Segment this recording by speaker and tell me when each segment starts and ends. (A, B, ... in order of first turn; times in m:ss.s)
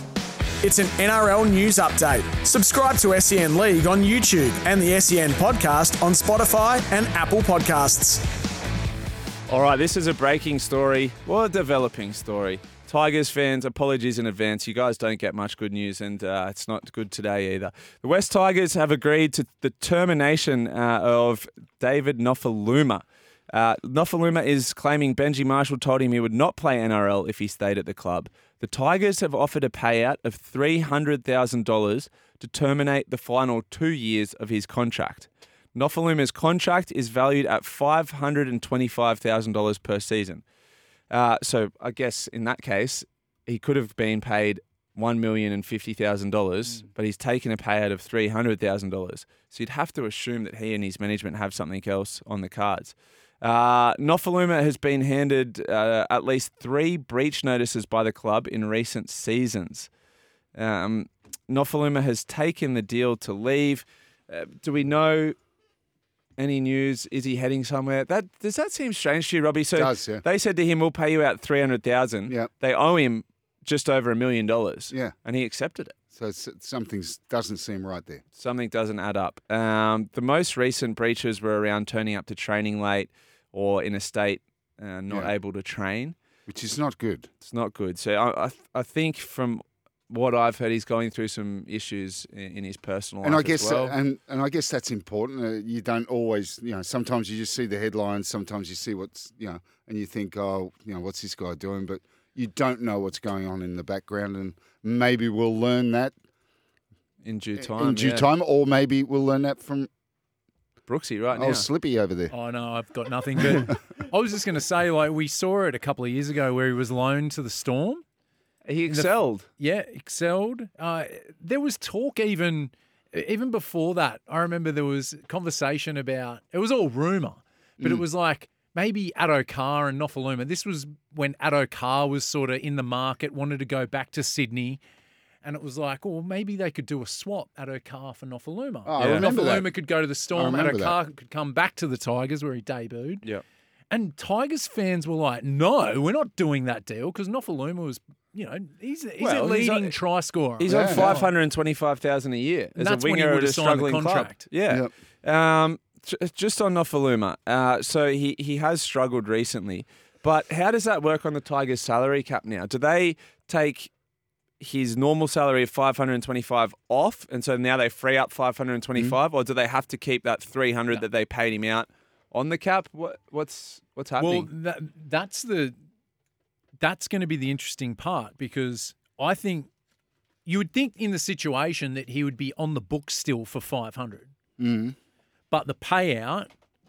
0:00.6-0:08.3 A
0:09.5-0:40.4 B
0:41.1-0:59.9 B
1:00.5-1:05.4 B
1:06.4-1:16.0 B
1:09.7-1:10.2 C
1:16.1-1:18.2 C
1:18.4-1:26.2 B
1:26.5-1:27.3 C
1:27.4-1:33.9 B
1:33.2-1:46.1 C
1:47.2-1:48.3 B
1:47.6-1:49.9 C
1:50.9-1:51.6 B
1:51.3-1:52.3 C
1:52.3-1:58.0 D
1:58.6-1:59.5 B
1:58.9-2:14.8 D
2:15.4-2:23.2 D
2:18.8-2:19.7 C
2:19.0-2:19.6 B
2:20.3-2:20.9 C
2:23.9-2:31.3 D
2:29.2-2:30.0 B
2:30.6-2:43.9 B
2:30.7-2:31.2 C
2:32.8-2:34.4 D
2:44.6-2:54.5 B
2:54.2-2:55.8 D
2:56.8-2:59.7 D
3:00.4-3:04.3 D
3:04.6-3:05.0 C
3:05.5-3:06.5 D